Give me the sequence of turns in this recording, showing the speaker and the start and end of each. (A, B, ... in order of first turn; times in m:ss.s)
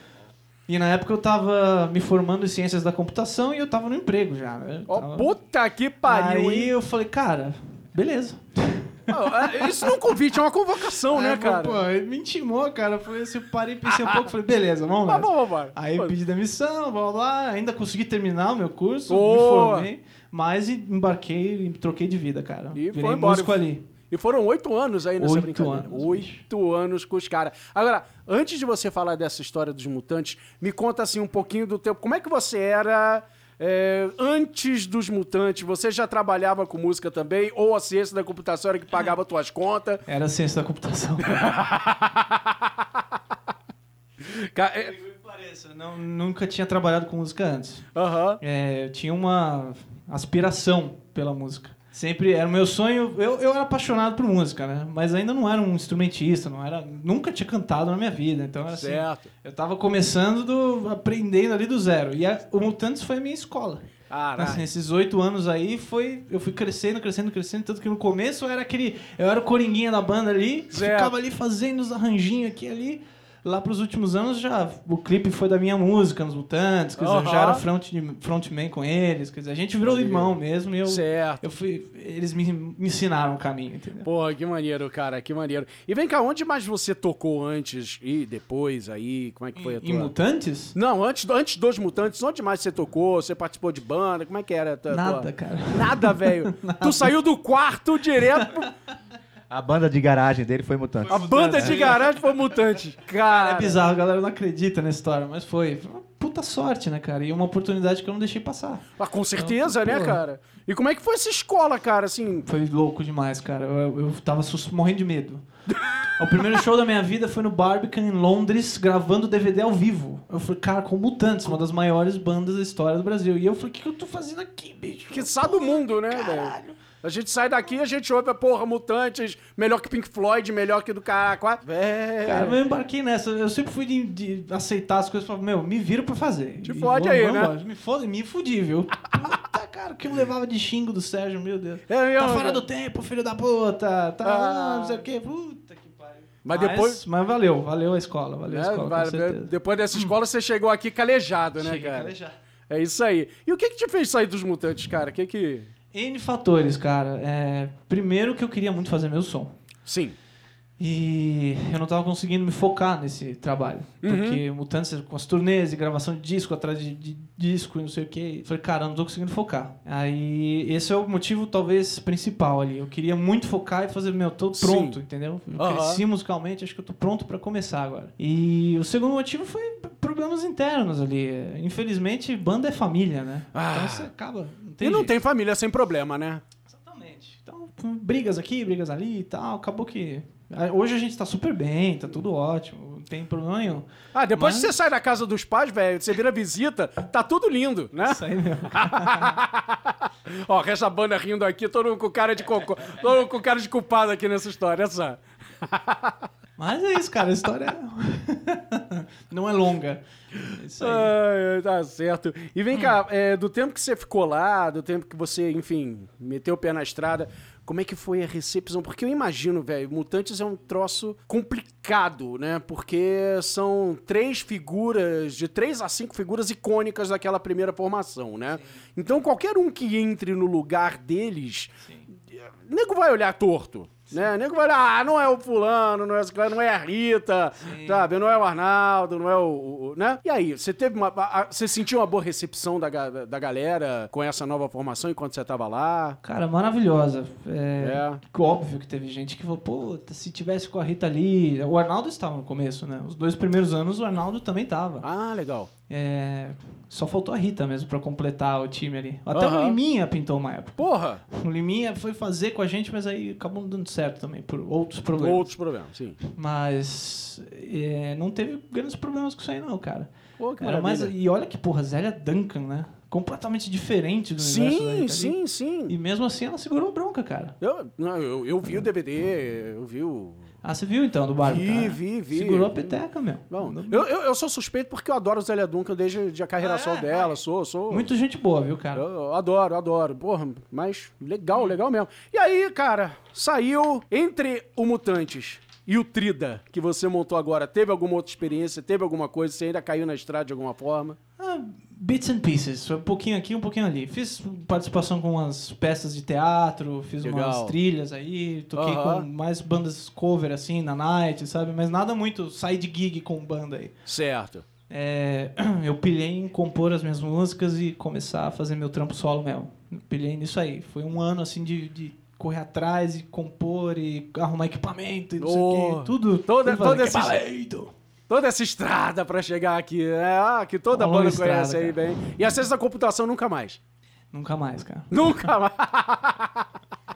0:00.7-0:05.3 A
0:04.9-0:06.7 B
0:06.0-0:10.0 A
0:09.1-0:11.8 B
0:11.1-0:23.9 A
0:13.8-0:14.3 B
0:15.1-0:16.1 B
0:19.1-0:19.9 B
0:22.7-0:40.0 B
0:25.2-0:26.4 A
0:40.1-0:41.4 A
0:41.3-0:42.7 B
0:44.2-0:44.9 B
0:44.8-0:47.8 A
0:47.9-0:48.4 B
0:48.4-1:24.1 A
0:58.7-0:59.3 B
1:04.1-1:04.7 B
1:10.7-1:11.1 B
1:17.0-1:17.6 B
1:19.8-1:20.3 B
1:20.8-1:21.4 B
1:24.0-1:30.1 B
1:29.6-1:30.8 A
1:30.7-1:38.7 B
1:34.9-1:37.1 A
1:39.5-1:41.7 C
1:41.1-1:42.1 A
1:41.1-1:43.8 B
1:43.2-1:48.8 A
1:49.0-1:52.4 B
1:49.4-1:50.2 A
1:52.4-1:55.4 A
1:56.2-2:06.8 A
2:05.1-2:12.6 B
2:12.2-2:30.1 A
2:16.6-2:17.5 B
2:21.9-2:22.6 B
2:24.2-2:25.0 B
2:26.4-2:27.0 B
2:28.5-2:32.1 B
2:31.6-2:32.3 A
2:32.7-2:35.7 B
2:35.9-2:39.5 A
2:39.8-2:40.1 B
2:40.8-3:05.1 A
2:44.0-2:44.4 B
2:54.6-2:55.0 B
2:55.6-2:56.0 B
3:03.5-3:04.1 B
3:04.8-3:06.4 B
3:06.7-3:14.7 A
3:14.1-3:26.2 B
3:18.0-3:19.4 A
3:26.6-3:31.1 A
3:30.8-3:51.7 B
3:52.3-4:06.2 B
3:57.6-3:58.1 A
4:06.2-4:15.1 A
4:07.8-4:08.2 B
4:15.0-4:15.7 B
4:15.9-4:25.4 A
4:19.3-4:19.8 B
4:20.8-4:21.2 B
4:25.2-4:26.2 B
4:26.2-4:35.4 A
4:30.4-4:31.1 B
4:34.4-4:35.9 B
4:35.9-4:37.6 A
4:37.6-4:40.4 B
4:40.6-4:44.0 A
4:41.4-4:43.0 B
4:43.5-4:48.1 B
4:46.6-4:47.4 A
4:47.9-4:49.0 A
4:48.9-5:01.2 B
5:01.4-5:13.9 A
5:07.2-5:07.8 B
5:08.7-5:09.2 B
5:14.0-5:14.6 B
5:14.9-5:27.9 A
5:25.4-5:27.4 B
5:28.3-5:33.8 B
5:30.9-5:32.0 A
5:34.3-5:35.5 A
5:35.1-5:36.7 B